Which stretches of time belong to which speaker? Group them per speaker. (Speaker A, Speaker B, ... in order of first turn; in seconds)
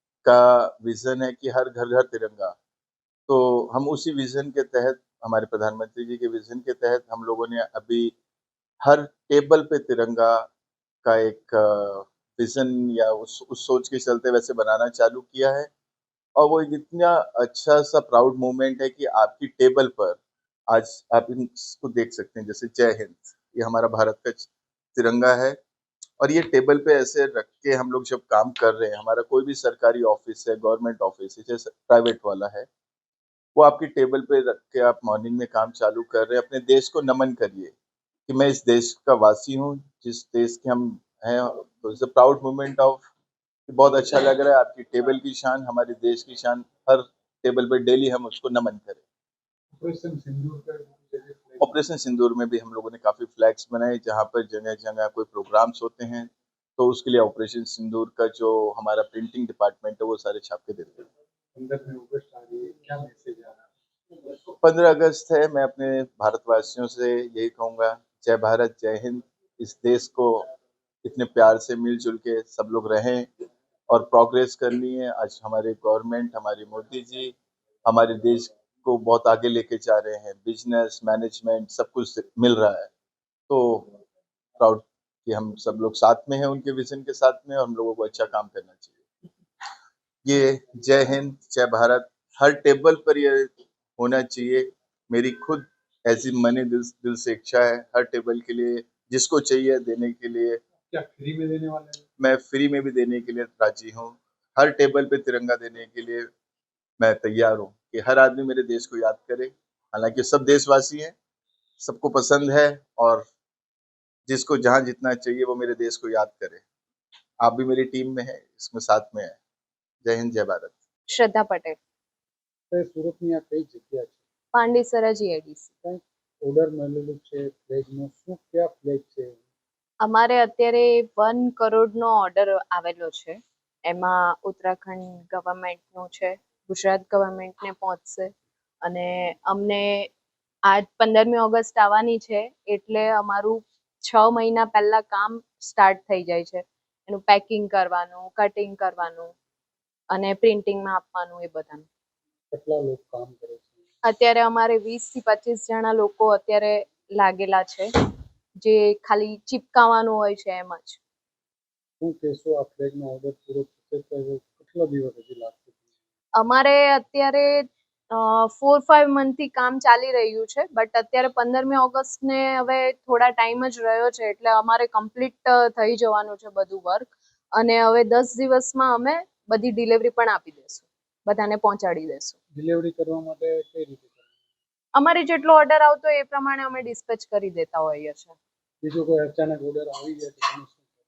Speaker A: 0.2-2.5, 3.3-8.1, 8.8-10.5, 11.0-15.7, 16.4-25.6, 26.2-32.7, 33.5-37.7, 38.3-43.0, 43.7-49.0, 51.6-61.0, 64.6-70.5, 71.0-73.3, 73.9-82.9, 83.5-83.9, 84.6-89.0, 90.2-100.6, 102.2-106.3, 107.0-111.1, 111.8-113.2, 114.3-116.6, 117.4-119.4, 120.0-120.8
Speaker B: 49.7-51.8, 61.5-63.6, 100.9-102.0, 122.7-124.2, 125.8-129.4, 152.5-153.8, 162.0-165.8, 182.5-184.3, 188.8-190.9
Speaker C: 121.1-121.8, 124.5-125.7, 130.0-138.3, 138.8-140.1, 140.7-149.3, 150.1-151.8, 154.0-157.9, 158.6-161.0, 166.4-182.3, 184.9-188.3